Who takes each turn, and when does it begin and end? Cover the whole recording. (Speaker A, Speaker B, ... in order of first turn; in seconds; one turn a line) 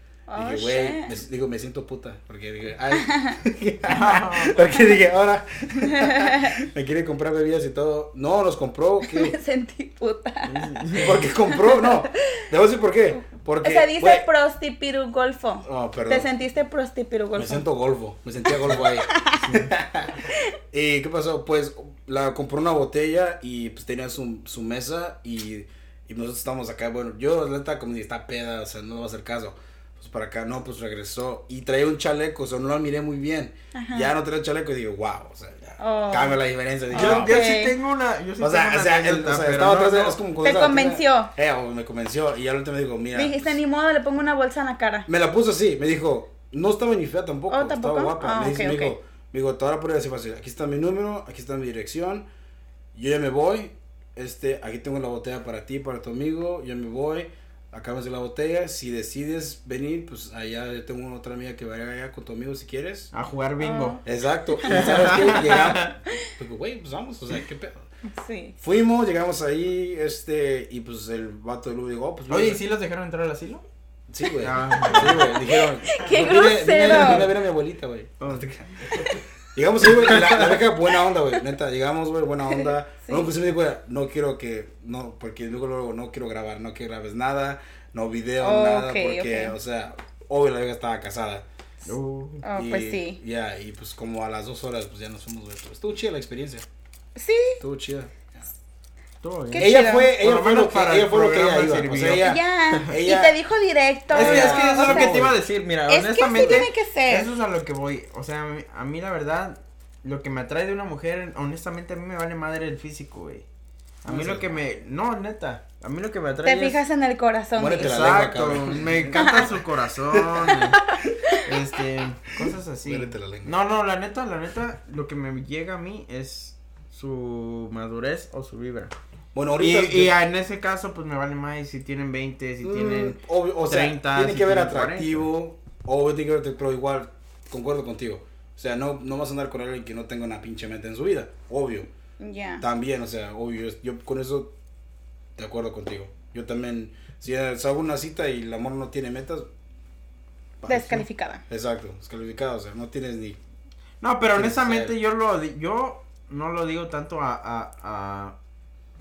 Speaker A: 0.3-1.2
Speaker B: 0.4-9.4
Speaker A: 3.0-3.4
Speaker C: 3.9-4.6
Speaker A: 4.6-5.0
Speaker A: 5.8-6.7
Speaker A: 9.0-12.4
Speaker C: 10.4-11.2
Speaker B: 10.9-14.3
Speaker A: 13.2-17.7
Speaker B: 15.7-16.3
Speaker B: 17.4-37.5
Speaker A: 18.6-19.4
Speaker A: 33.7-34.1
Speaker A: 35.8-37.7
Speaker C: 36.9-40.2
Speaker B: 38.4-43.6
Speaker A: 40.4-41.3
Speaker A: 43.1-45.1
Speaker B: 45.1-52.3
Speaker A: 47.5-49.0
Speaker B: 52.9-63.1
Speaker C: 63.1-64.0
Speaker A: 63.6-65.6
Speaker B: 64.0-67.9
Speaker C: 64.7-66.0
Speaker A: 68.1-68.6
Speaker B: 68.6-72.6
Speaker C: 72.3-73.6
Speaker B: 74.1-78.9
Speaker C: 74.4-75.3
Speaker A: 75.0-77.3
Speaker C: 78.2-78.5
Speaker B: 79.5-91.5
Speaker C: 79.9-80.5
Speaker A: 82.5-83.3
Speaker A: 88.4-89.5
Speaker C: 91.9-92.4
Speaker A: 92.4-93.2
Speaker B: 92.5-96.7
Speaker A: 97.2-97.6
Speaker B: 97.6-98.5
Speaker C: 99.2-102.8
Speaker A: 99.5-100.1
Speaker B: 99.6-103.4
Speaker A: 102.2-105.2
Speaker B: 104.1-105.4
Speaker C: 104.1-113.5
Speaker A: 105.9-107.3
Speaker C: 114.0-116.8
Speaker B: 114.1-114.6
Speaker A: 116.4-118.1
Speaker B: 117.6-119.5
Speaker C: 117.8-120.8
Speaker A: 119.1-119.6
Speaker B: 120.1-120.5
Speaker A: 120.7-121.4
Speaker C: 121.4-128.9
Speaker B: 122.8-123.5
Speaker B: 129.3-130.2
Speaker C: 129.6-135.3
Speaker B: 132.6-141.9
Speaker A: 142.2-142.6
Speaker B: 142.6-144.5
Speaker B: 145.4-149.5
Speaker B: 150.6-153.4
Speaker A: 150.7-151.4
Speaker C: 154.0-158.4
Speaker B: 154.3-154.9